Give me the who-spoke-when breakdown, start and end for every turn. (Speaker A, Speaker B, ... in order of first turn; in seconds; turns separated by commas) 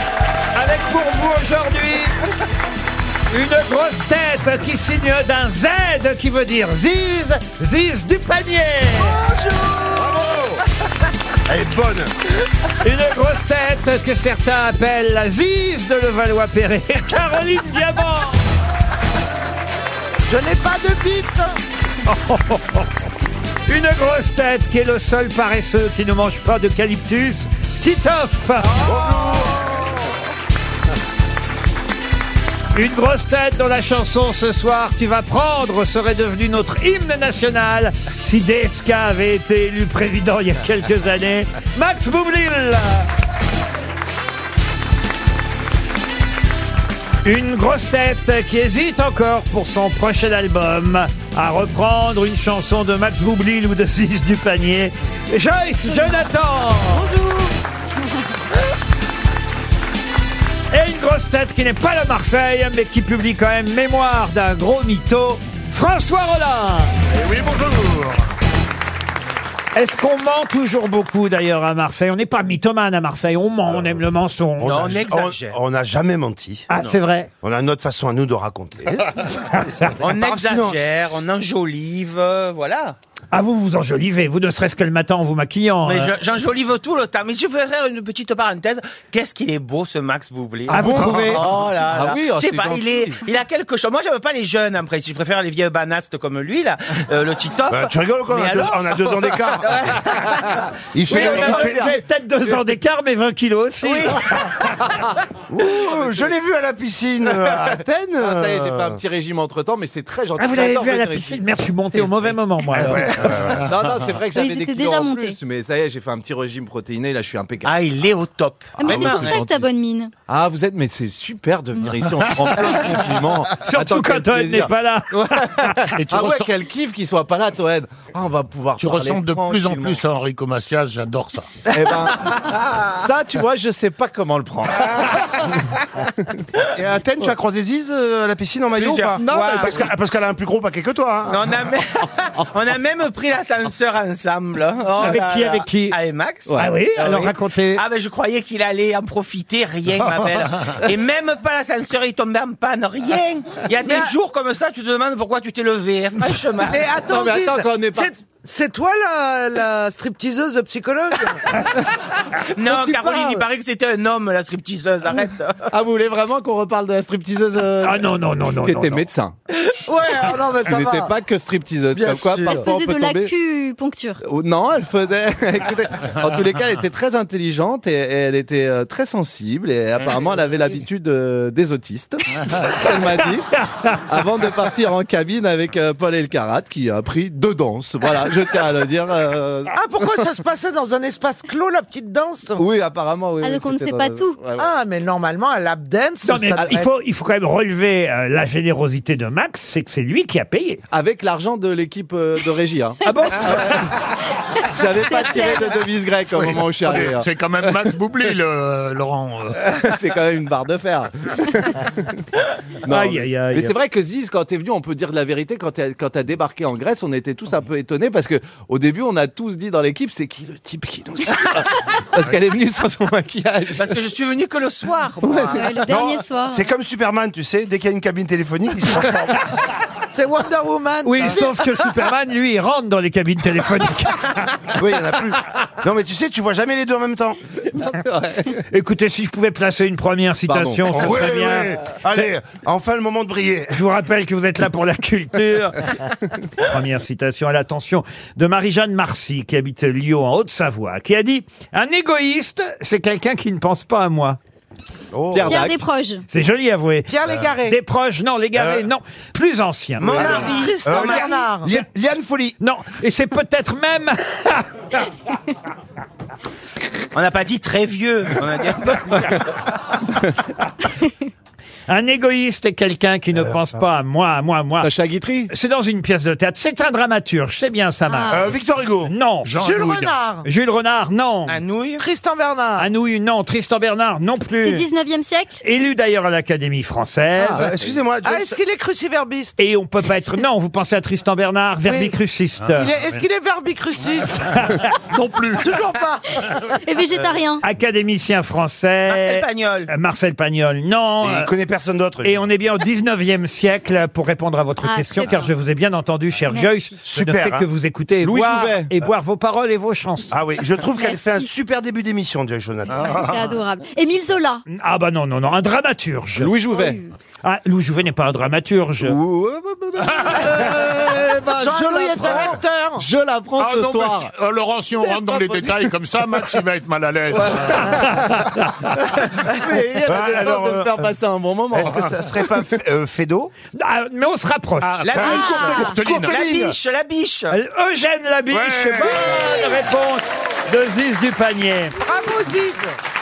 Speaker A: 0.5-2.2, Speaker A: 3.3-9.2, Speaker B: 9.3-10.3, Speaker C: 9.8-10.6, Speaker C: 11.5-12.2, Speaker A: 12.8-18.4, Speaker B: 20.3-21.6, Speaker A: 22.0-22.9, Speaker A: 23.7-28.7, Speaker B: 28.8-29.6, Speaker C: 28.8-29.8, Speaker A: 32.7-43.1, Speaker A: 47.2-57.1, Speaker D: 55.9-56.2, Speaker B: 56.9-57.5, Speaker A: 60.7-67.0, Speaker E: 67.1-68.2, Speaker A: 69.7-74.8, Speaker C: 74.6-76.7, Speaker F: 74.6-75.6, Speaker A: 76.7-77.3, Speaker C: 77.4-79.4, Speaker A: 79.4-80.0, Speaker F: 80.0-83.0, Speaker C: 80.0-80.8, Speaker A: 83.3-86.1, Speaker F: 85.8-101.5, Speaker A: 90.7-91.4, Speaker G: 90.7-93.2, Speaker C: 91.1-91.5, Speaker C: 97.7-100.4, Speaker C: 100.9-102.0, Speaker A: 101.1-104.6, Speaker F: 103.8-104.4, Speaker C: 105.5-109.0, Speaker G: 107.3-111.4, Speaker A: 110.4-113.3, Speaker G: 112.7-117.8, Speaker C: 112.8-113.7, Speaker D: 114.3-115.4, Speaker F: 117.6-119.4, Speaker D: 118.8-120.1, Speaker G: 118.8-119.6, Speaker G: 120.3-130.0, Speaker A: 123.6-125.9, Speaker E: 126.0-126.5, Speaker E: 128.8-131.5, Speaker G: 131.7-135.2, Speaker F: 132.4-132.8, Speaker C: 136.7-141.7, Speaker F: 138.8-139.8, Speaker G: 139.3-139.8, Speaker F: 141.3-156.9, Speaker A: 145.0-146.0, Speaker A: 146.6-147.8, Speaker B: 153.8-154.1, Speaker B: 156.6-161.7, Speaker G: 157.0-158.1, Speaker F: 162.5-165.7, Speaker B: 162.6-163.4, Speaker G: 165.7-169.3, Speaker A: 167.8-169.0, Speaker B: 169.8-171.1, Speaker G: 170.6-173.3, Speaker B: 171.9-172.6, Speaker D: 172.4-174.2, Speaker G: 174.2-190.1, Speaker B: 189.7-192.6, Speaker G: 192.5-194.7, Speaker D: 193.4-194.4, Speaker B: 194.6-196.9, Speaker A: 196.2-200.8, Speaker G: 200.9-203.8, Speaker A: 203.0-203.9, Speaker G: 204.7-207.9, Speaker D: 204.8-205.9, Speaker E: 206.8-209.7, Speaker G: 209.7-212.0, Speaker G: 212.8-224.0, Speaker A: 212.9-213.7, Speaker F: 223.8-225.9, Speaker G: 225.2-225.9, Speaker D: 225.5-226.7, Speaker C: 225.9-229.4, Speaker B: 230.1-231.7, Speaker A: 231.0-234.3, Speaker C: 234.7-237.4, Speaker G: 237.7-238.6, Speaker A: 238.7-241.8, Speaker G: 240.5-241.4, Speaker C: 240.9-243.8, Speaker A: 243.7-245.8, Speaker A: 246.6-254.4, Speaker C: 255.1-255.6, Speaker G: 255.3-255.8, Speaker D: 255.4-256.2, Speaker A: 256.3-260.3, Speaker B: 257.1-257.8, Speaker C: 258.6-258.9, Speaker F: 260.0-261.3, Speaker B: 260.1-261.7, Speaker C: 260.1-262.5, Speaker A: 262.6-265.1, Speaker F: 267.1-269.4, Speaker A: 271.9-274.9, Speaker G: 274.8-275.5, Speaker A: 275.5-278.4, Speaker D: 278.1-278.5, Speaker C: 278.3-279.1, Speaker A: 279.0-279.5, Speaker E: 279.4-280.1, Speaker B: 279.5-280.4, Speaker A: 280.4-281.6, Speaker F: 281.5-282.0, Speaker B: 282.0-282.9, Speaker A: 282.8-284.9, Speaker D: 284.6-285.6, Speaker A: 285.6-287.7, Speaker C: 287.4-288.6, Speaker B: 288.2-289.6, Speaker A: 289.6-292.9, Speaker B: 291.8-292.1, Speaker E: 292.6-293.2, Speaker B: 292.8-294.5, Speaker A: 294.5-294.8, Speaker E: 294.6-296.9, Speaker B: 295.6-296.4, Speaker D: 296.8-297.6, Speaker A: 297.6-301.5, Speaker F: 299.1-299.9, Speaker C: 301.2-302.4, Speaker A: 302.2-310.3, Speaker D: 304.8-305.5, Speaker D: 306.5-306.9, Speaker C: 307.0-307.6, Speaker G: 308.2-308.9, Speaker C: 310.3-313.2, Speaker D: 310.9-311.5, Speaker E: 312.9-313.4, Speaker D: 313.0-314.6, Speaker A: 314.7-316.5, Speaker G: 316.4-317.0, Speaker D: 316.7-317.1, Speaker A: 317.4-319.2, Speaker G: 319.0-324.3, Speaker B: 321.6-323.1, Speaker E: 323.6-328.1, Speaker G: 325.0-325.7, Speaker G: 327.3-328.1, Speaker A: 327.8-328.9, Speaker G: 329.4-332.1, Speaker C: 330.0-330.9, Speaker C: 331.7-333.5, Speaker A: 333.7-335.0, Speaker E: 334.8-336.4, Speaker F: 335.0-337.5, Speaker D: 335.2-336.0, Speaker B: 336.0-336.6, Speaker A: 337.5-342.0, Speaker E: 338.5-339.6, Speaker B: 342.0-342.9